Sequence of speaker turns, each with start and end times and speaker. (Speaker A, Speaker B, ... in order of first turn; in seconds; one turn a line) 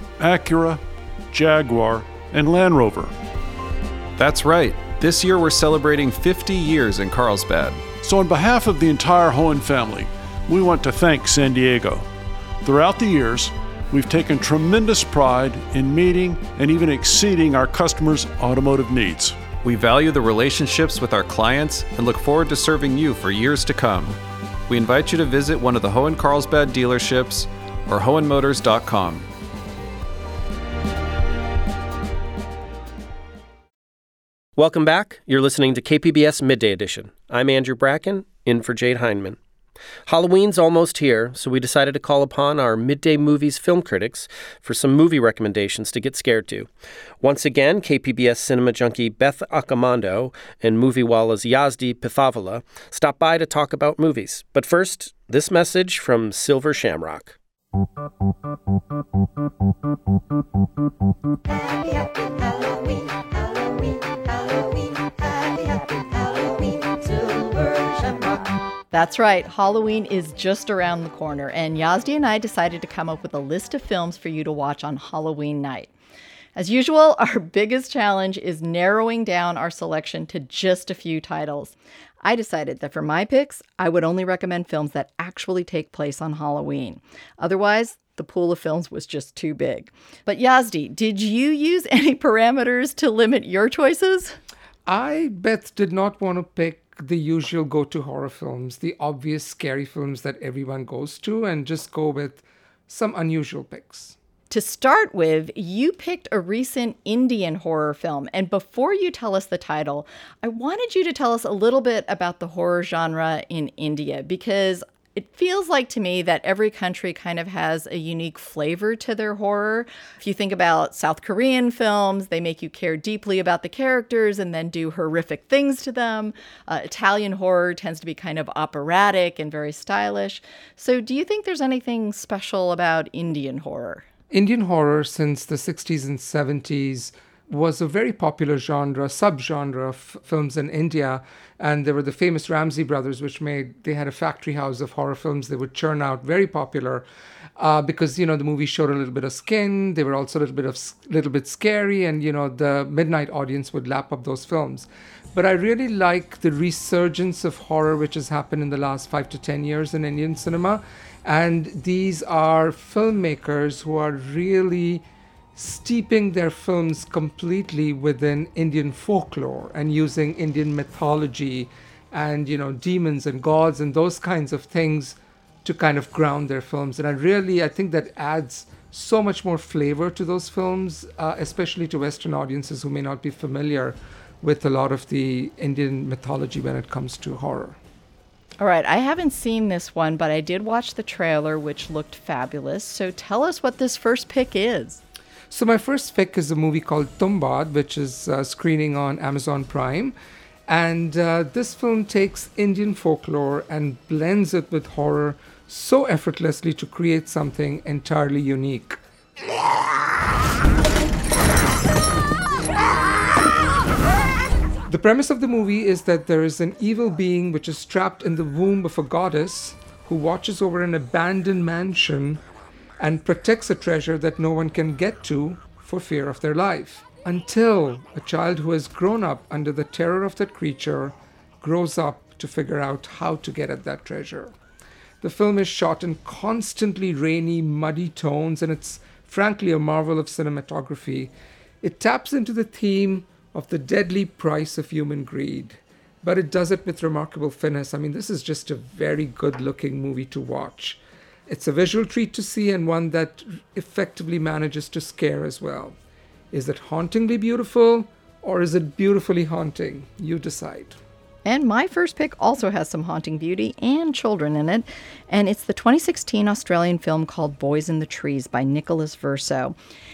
Speaker A: 0.2-3.1
Speaker B: 4.2-7.9
Speaker A: 8.0-12.1
Speaker A: 12.6-19.5
Speaker B: 19.6-29.3
Speaker C: 34.6-39.4
Speaker C: 40.1-46.7
Speaker C: 47.2-57.4
Speaker D: 65.7-66.1
Speaker D: 67.8-68.1
Speaker D: 68.9-75.9
Speaker D: 76.5-94.4
Speaker E: 94.9-104.2
Speaker D: 104.5-134.1
Speaker E: 134.3-147.1
Speaker E: 147.6-165.1
Speaker E: 165.6-187.8
Speaker D: 188.6-195.0
Speaker E: 195.5-200.2
Speaker E: 200.7-209.0
Speaker E: 214.9-222.4
Speaker E: 223.0-234.6
Speaker E: 235.2-256.0
Speaker E: 256.5-261.0
Speaker D: 261.4-269.8